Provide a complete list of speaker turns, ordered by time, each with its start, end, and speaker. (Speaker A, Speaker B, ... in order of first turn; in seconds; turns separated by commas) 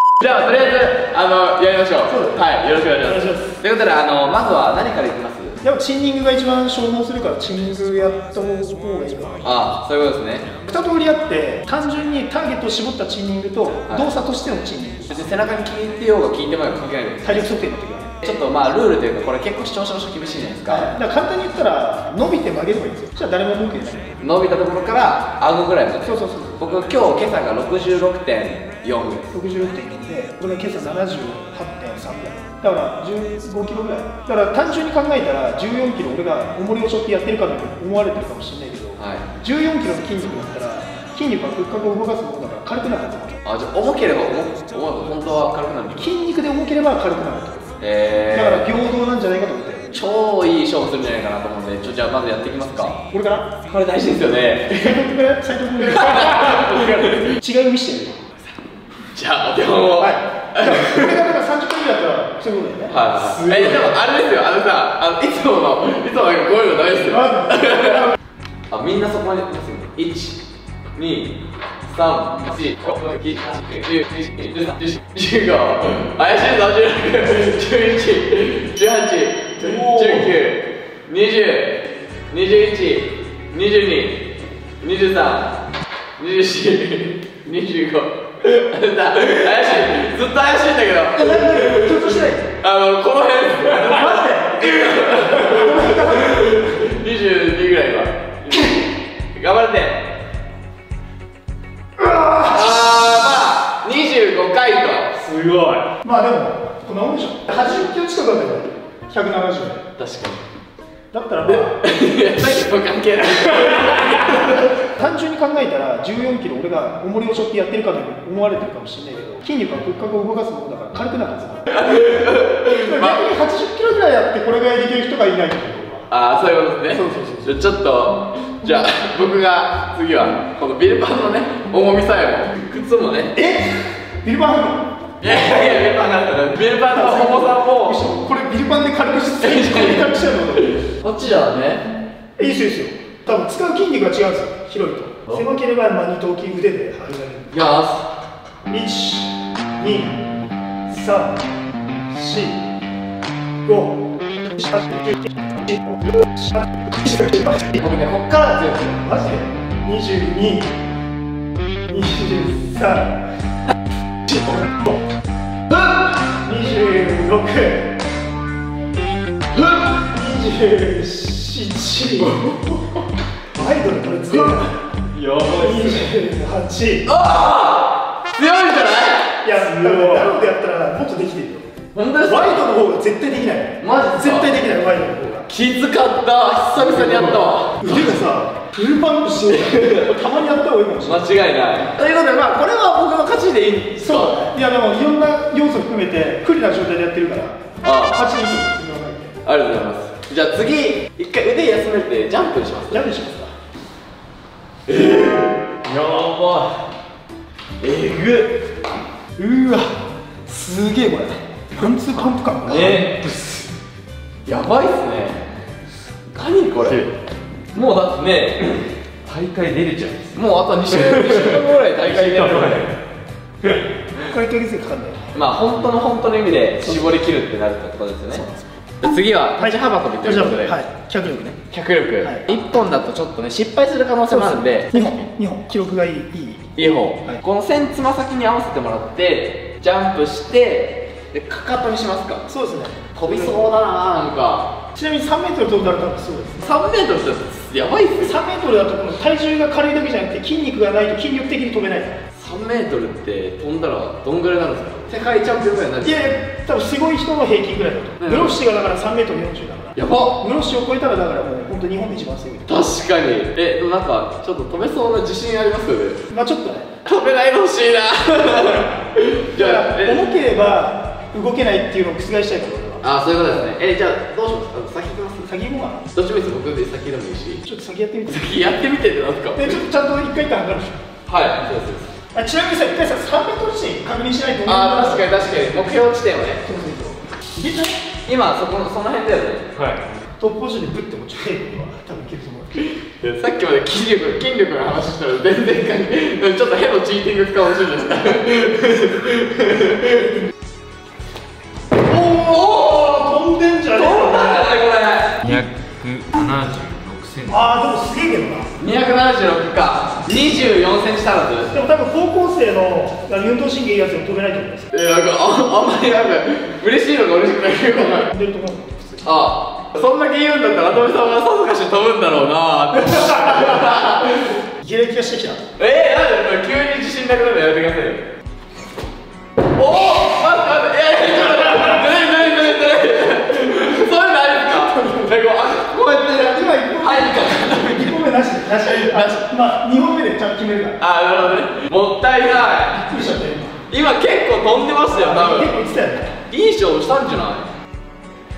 Speaker A: 0.2-5.6, Speaker B: 2.1-2.4, Speaker B: 3.0-3.5, Speaker B: 5.6-9.5, Speaker A: 9.4-10.5, Speaker B: 10.6-15.2, Speaker A: 15.1-17.5, Speaker B: 17.2-18.1, Speaker A: 18.2-20.9, Speaker B: 20.7-24.2, Speaker A: 24.2-29.3, Speaker B: 26.0-26.9, Speaker B: 29.3-43.4, Speaker A: 39.0-39.3, Speaker A: 43.4-46.1, Speaker B: 46.0-47.7, Speaker A: 47.8-48.7, Speaker B: 48.3-50.0, Speaker A: 49.9-53.0, Speaker B: 53.1-53.6, Speaker A: 53.6-55.0, Speaker B: 54.7-58.3, Speaker A: 55.8-57.4, Speaker A: 59.0-61.2, Speaker B: 60.0-63.9, Speaker A: 62.9-68.1, Speaker B: 67.1-68.0, Speaker A: 68.7-70.4, Speaker A: 70.9-85.6, Speaker A: 86.2-100.1, Speaker B: 91.1-92.5, Speaker B: 93.7-96.7, Speaker B: 102.0-103.0, Speaker A: 102.4-105.4, Speaker C: 105.3-105.9, Speaker B: 106.0-109.8, Speaker A: 110.0-110.4, Speaker B: 111.1-111.8, Speaker A: 111.5-114.9, Speaker B: 113.8-126.1, Speaker A: 121.7-123.2, Speaker A: 126.1-133.3, Speaker B: 126.9-127.6, Speaker B: 133.3-135.6, Speaker A: 135.2-138.0, Speaker B: 136.9-140.8, Speaker A: 139.4-141.9, Speaker B: 142.4-147.6, Speaker A: 147.5-148.1, Speaker B: 148.7-150.2, Speaker B: 150.9-151.5, Speaker B: 152.1-152.6, Speaker B: 153.6-157.8, Speaker A: 157.7-159.2, Speaker B: 159.0-160.7, Speaker B: 161.9-163.2, Speaker B: 164.3-164.9, Speaker B: 166.1-167.9, Speaker A: 169.6-169.9, Speaker B: 169.9-172.7, Speaker A: 172.3-172.6, Speaker B: 173.5-174.8, Speaker A: 175.1-176.1, Speaker B: 175.5-177.1, Speaker A: 177.1-180.3, Speaker B: 179.4-181.7, Speaker A: 181.9-182.7, Speaker B: 182.2-185.5, Speaker A: 183.8-184.6, Speaker A: 185.5-188.1, Speaker B: 186.8-191.3, Speaker A: 189.5-190.2, Speaker A: 191.0-194.5, Speaker B: 194.0-199.4, Speaker A: 197.8-198.2, Speaker A: 199.4-203.1, Speaker B: 202.9-203.5, Speaker A: 204.9-206.9, Speaker A: 207.8-208.6, Speaker B: 209.4-209.9, Speaker B: 210.5-213.0, Speaker A: 212.7-213.3, Speaker C: 212.9-213.6, Speaker A: 214.4-215.5, Speaker A: 216.3-217.1, Speaker A: 217.7-218.8, Speaker C: 219.2-220.3, Speaker A: 220.3-222.9, Speaker C: 220.9-221.5, Speaker B: 222.2-222.8, Speaker C: 222.4-222.8, Speaker B: 223.6-225.3, Speaker A: 225.3-228.4, Speaker A: 229.0-230.8, Speaker B: 229.6-231.6, Speaker A: 231.7-235.2, Speaker B: 234.3-237.4, Speaker A: 236.8-242.5, Speaker B: 242.5-243.7, Speaker A: 243.1-244.8, Speaker B: 244.9-246.7, Speaker A: 246.6-248.4, Speaker B: 248.2-252.2, Speaker A: 252.3-256.3, Speaker B: 256.0-262.7, Speaker A: 258.2-258.6, Speaker A: 259.9-260.4, Speaker A: 262.6-266.2, Speaker B: 266.3-266.9, Speaker A: 267.0-270.2, Speaker B: 268.6-268.9, Speaker B: 269.5-273.0, Speaker A: 273.0-275.5, Speaker B: 275.4-276.1, Speaker A: 276.1-277.6, Speaker B: 277.6-278.6, Speaker A: 278.3-279.8, Speaker B: 279.5-281.0, Speaker A: 281.3-282.1, Speaker B: 282.3-285.7, Speaker A: 284.6-286.6, Speaker B: 286.6-287.3, Speaker A: 287.6-289.9, Speaker B: 290.4-292.7, Speaker A: 292.8-300.4, Speaker A: 302.1-303.2, Speaker B: 302.1-304.7, Speaker A: 303.9-305.6, Speaker C: 305.4-307.7, Speaker B: 307.5-308.8, Speaker A: 308.8-311.7, Speaker B: 311.7-314.9, Speaker A: 314.9-318.3, Speaker B: 317.8-319.2, Speaker A: 319.2-324.6, Speaker B: 323.0-324.1, Speaker B: 324.8-325.6, Speaker A: 325.8-328.3, Speaker A: 329.7-338.2, Speaker B: 334.8-335.3, Speaker B: 336.2-341.0, Speaker A: 338.8-339.5, Speaker A: 341.0-343.1, Speaker B: 343.0-343.8, Speaker A: 343.9-345.7, Speaker B: 345.1-346.3, Speaker A: 346.5-347.7